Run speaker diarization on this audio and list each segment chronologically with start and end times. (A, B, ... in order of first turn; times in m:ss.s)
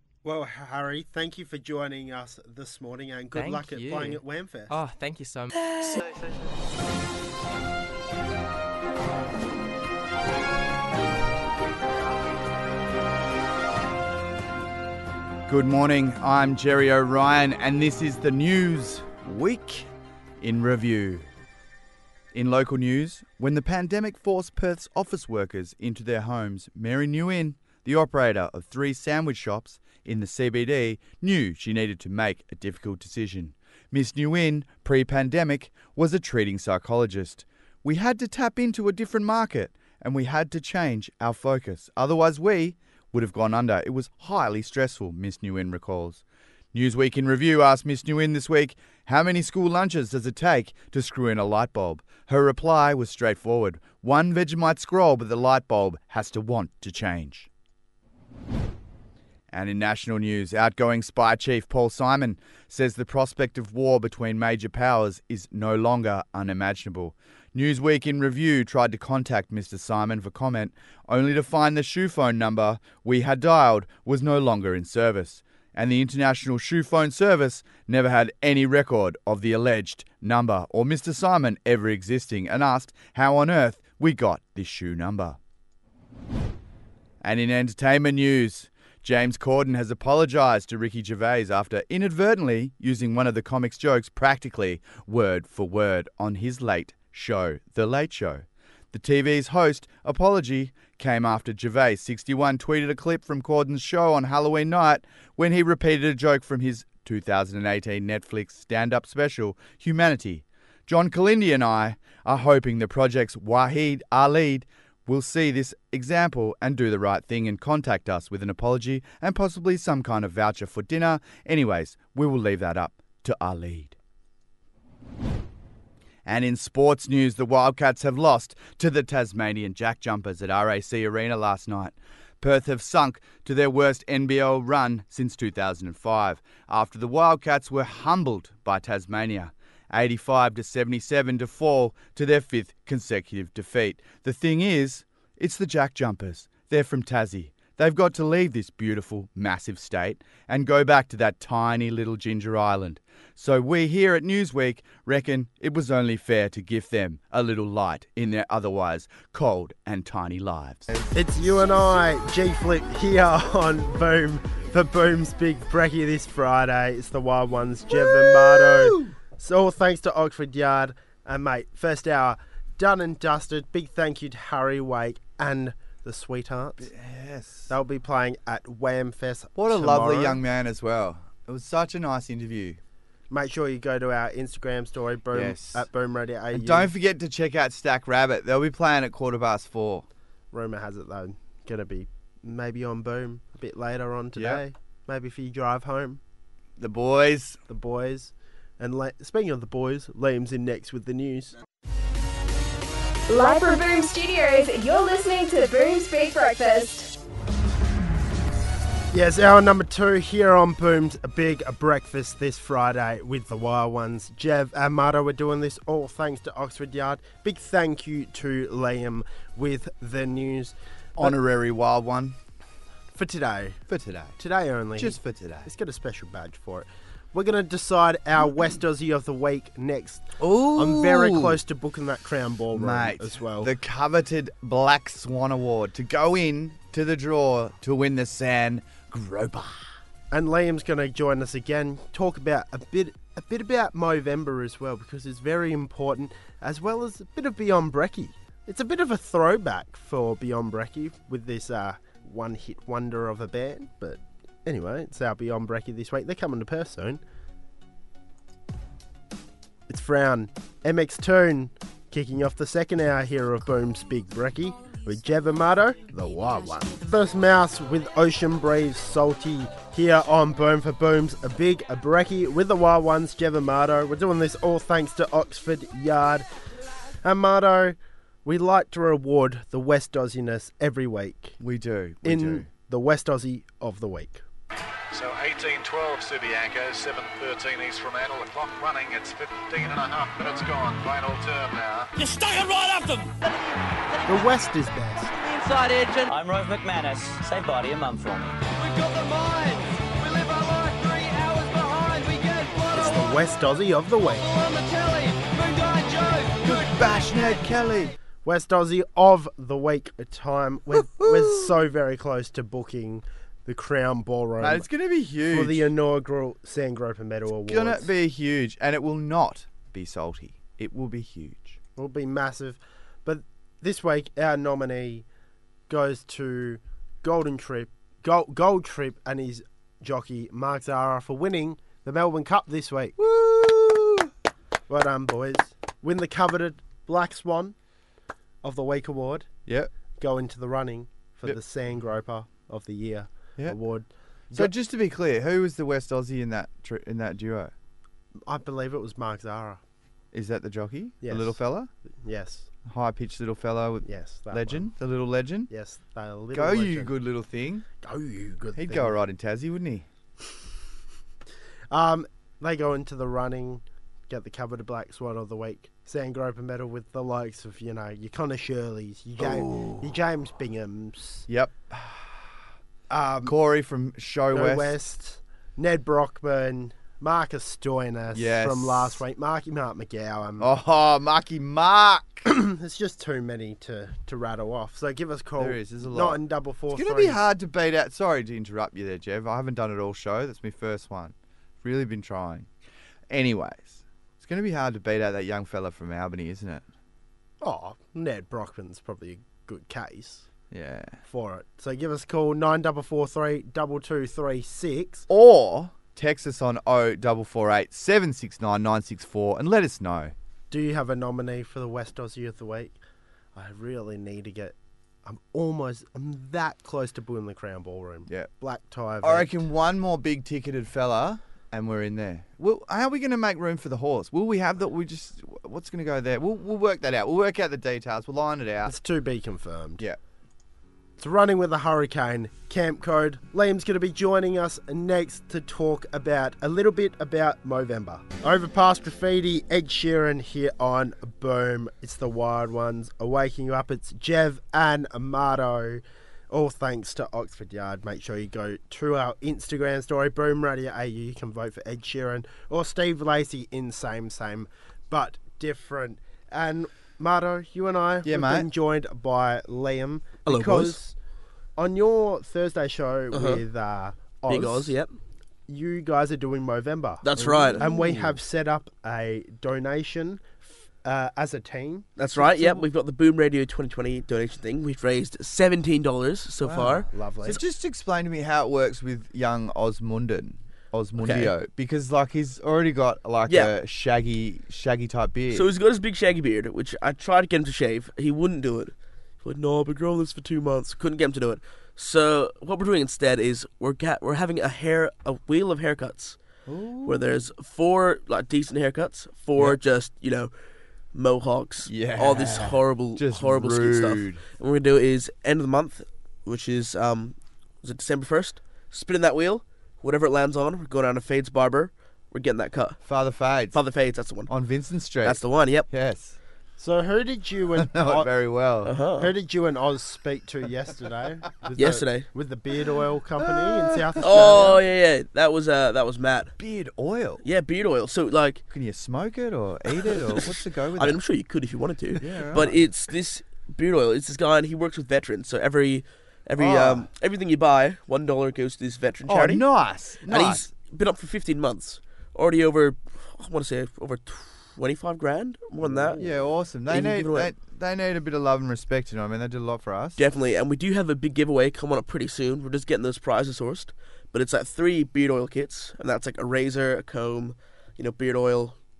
0:00.2-0:04.7 A
0:03.3-0:05.5 B
0:15.5-0:19.9 C
0:20.4-0:21.3 C
0:22.3-0:57.5 C
0:59.5-1:25.4 C
1:27.2-2:04.0 C
2:06.2-2:40.9 C
2:41.1-2:56.9 A
2:47.9-2:49.1 C
2:56.8-2:57.7 C
2:57.7-3:00.4 A
2:59.6-3:02.8 C
3:03.3-3:06.9 A
3:05.3-3:05.9 C
3:06.5-3:10.0 C
3:10.5-3:16.2 A
3:14.4-3:14.6 C
3:16.8-3:17.6 C
3:17.7-3:21.5 A
3:23.3-3:27.1 D
3:29.1-3:41.3 A
3:41.2-3:42.4 C
3:43.1-3:43.8 A
3:43.9-3:44.4 C
3:44.4-3:53.7 A
3:45.0-3:45.7 C
3:50.4-3:51.6 C
3:52.7-3:59.9 C
4:00.3-4:17.2 A
4:19.9-4:36.4 A
4:37.2-4:41.6 A
4:41.6-4:42.7 C
4:42.2-4:44.4 A
4:45.1-4:52.1 E
4:54.2-4:55.3 A
4:55.6-4:56.2 F
4:56.3-4:58.5 G
4:58.8-5:03.0 F
5:02.9-5:04.5 A
5:04.6-5:06.6 F
5:06.6-5:08.1 C
5:08.4-5:14.9 A
5:10.9-5:11.7 C
5:14.6-5:15.9 C
5:15.4-5:18.1 A
5:17.7-5:21.8 C
5:22.0-5:25.2 A
5:25.9-5:33.2 A
5:33.2-5:34.3 C
5:34.9-5:37.7 A
5:38.6-5:39.5 A
5:40.2-5:44.7 A
5:44.5-5:47.7 C
5:48.4-5:49.8 A
5:50.3-5:51.9 C
5:51.2-5:51.6 A
5:52.2-5:52.7 A
5:52.9-5:55.7 C
5:54.0-5:54.9 A
5:55.7-5:57.1 A
5:56.5-5:57.8 C
5:58.0-5:59.2 A
5:58.8-6:00.0 C
6:01.9-6:11.4 A
6:09.4-6:10.1 C
6:11.5-6:12.5 C
6:13.1-6:13.6 A
6:13.4-6:14.9 C
6:14.5-6:20.7 A
6:18.3-6:19.2 C
6:20.6-6:22.4 C
6:22.4-6:27.4 A
6:25.6-6:26.4 C
6:26.9-6:32.7 C
6:33.3-6:36.8 C
6:37.6-6:40.5 A
6:40.7-6:41.2 C
6:41.3-6:45.3 A
6:45.3-6:50.3 C
6:50.7-6:53.0 A
6:53.6-6:59.5 A
6:59.2-7:08.9 C
7:08.8-7:10.0 A
7:11.2-7:41.1 A
7:38.2-7:38.7 C
7:40.4-7:41.0 H
7:41.8-7:45.0 A
7:43.3-7:43.6 H
7:44.5-7:45.1 H
7:45.7-7:52.8 A
7:47.2-7:48.3 H
7:52.2-7:57.1 H
7:56.6-8:05.7 C
7:57.1-7:57.6 A
8:01.2-8:01.5 H
8:03.5-8:03.7 H
8:05.5-8:16.4 H
8:16.7-8:17.2 C
8:17.0-8:20.5 H
8:21.1-8:33.0 H
8:21.9-8:24.4 C
8:33.0-8:33.8 C
8:33.7-8:34.5 H
8:34.5-8:36.4 C
8:35.2-8:35.9 H
8:36.8-8:38.3 A
8:37.8-8:38.9 C
8:38.8-8:39.3 H
8:39.2-8:44.8 A
8:41.8-8:42.3 H
8:43.4-8:44.5 C
8:44.2-8:46.5 H
8:46.6-8:47.4 C
8:47.4-8:48.6 H
8:48.7-8:51.2 C
8:50.1-8:59.6 H
8:52.2-8:52.8 C
8:56.6-8:57.1 C
8:59.2-9:00.6 C
9:00.2-9:06.3 H
9:06.2-9:10.2 C
9:06.9-9:07.5 H
9:10.2-9:18.7 H